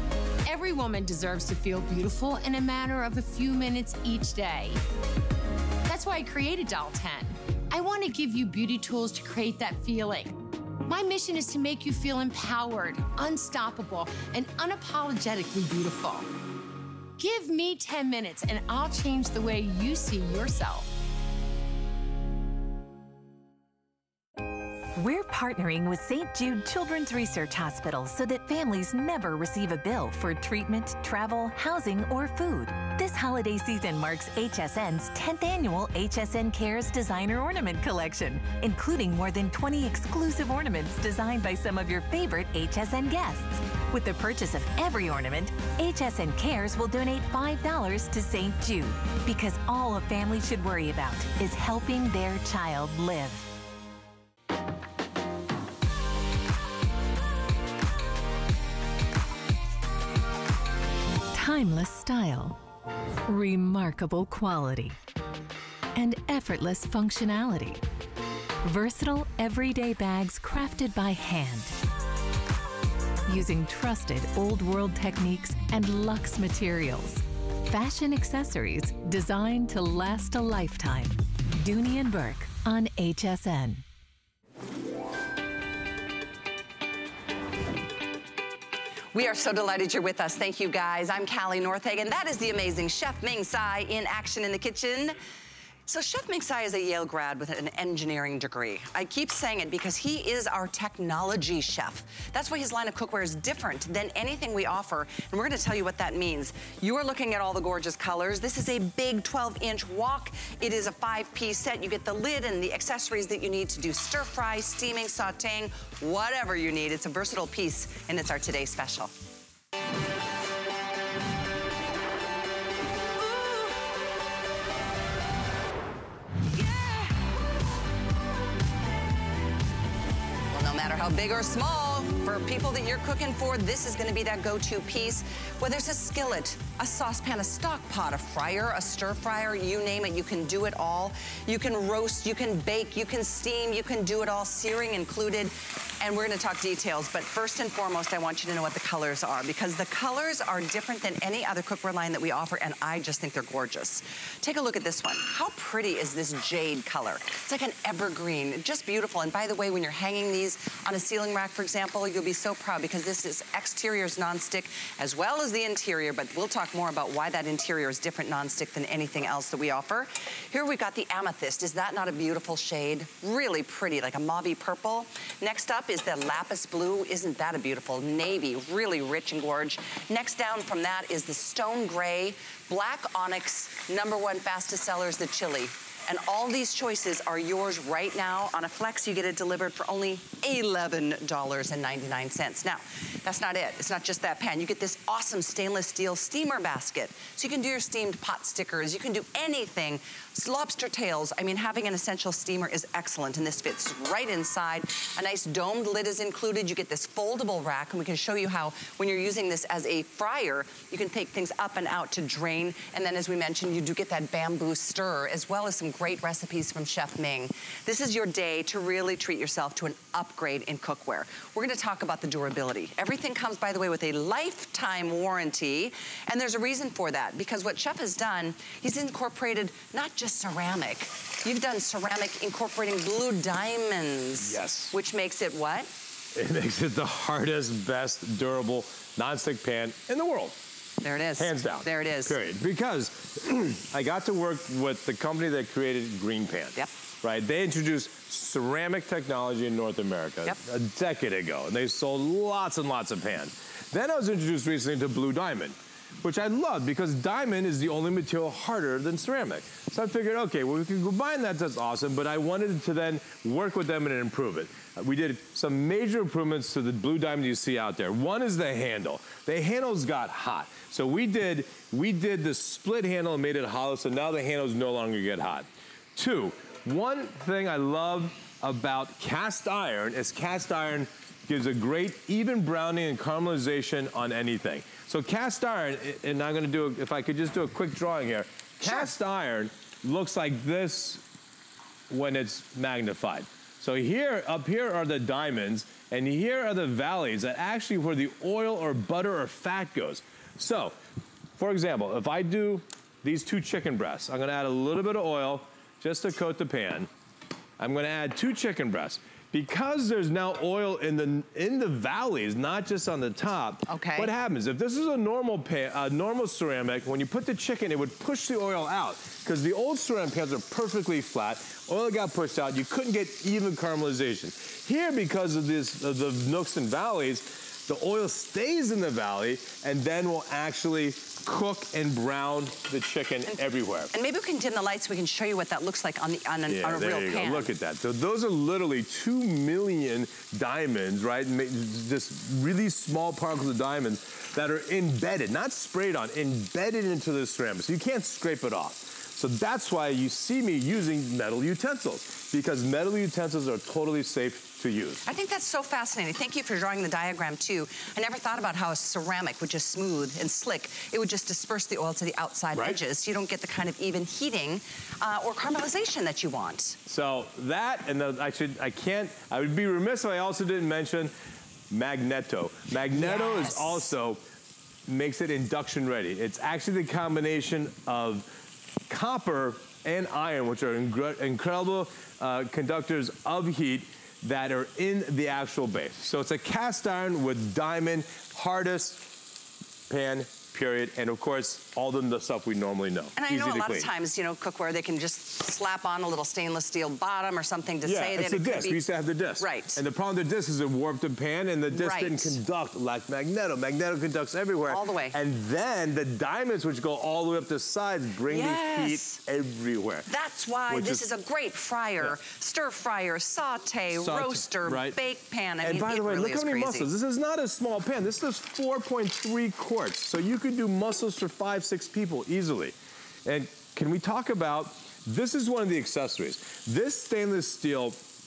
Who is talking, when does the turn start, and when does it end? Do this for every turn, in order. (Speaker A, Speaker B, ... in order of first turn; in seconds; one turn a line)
Speaker A: 0.4-4.8
Speaker A: 5.8-16.3
Speaker A: 17.2-20.9
Speaker B: 24.9-53.5
Speaker B: 61.3-62.6
Speaker B: 63.2-65.0
Speaker B: 65.9-67.8
Speaker B: 68.6-71.8
Speaker B: 73.3-83.8
Speaker C: 89.1-95.2
Speaker C: 95.9-119.1
Speaker C: 130.5-235.9
Speaker D: 234.4-234.9
Speaker D: 236.3-240.6
Speaker C: 241.0-242.4
Speaker D: 241.4-291.2
Speaker C: 288.8-289.1
Speaker D: 292.1-300.9
Speaker D: 301.6-307.1
Speaker D: 307.8-334.1
Speaker C: 313.9-314.3
Speaker C: 334.1-337.7
Speaker D: 336.7-355.2
Speaker C: 355.2-367.0
Speaker D: 362.7-363.0
Speaker D: 367.1-371.3
Speaker D: 371.9-374.4
Speaker C: 373.1-374.1
Speaker D: 375.1-378.5
Speaker D: 379.1-389.3
Speaker D: 390.1-394.1
Speaker C: 393.4-399.0
Speaker D: 398.0-410.3
Speaker C: 399.6-400.0
Speaker C: 401.9-402.6
Speaker C: 404.9-405.4
Speaker C: 408.5-409.4
Speaker C: 410.3-417.1
Speaker D: 410.9-411.3
Speaker D: 414.1-415.2
Speaker D: 415.8-422.9
Speaker D: 423.4-428.2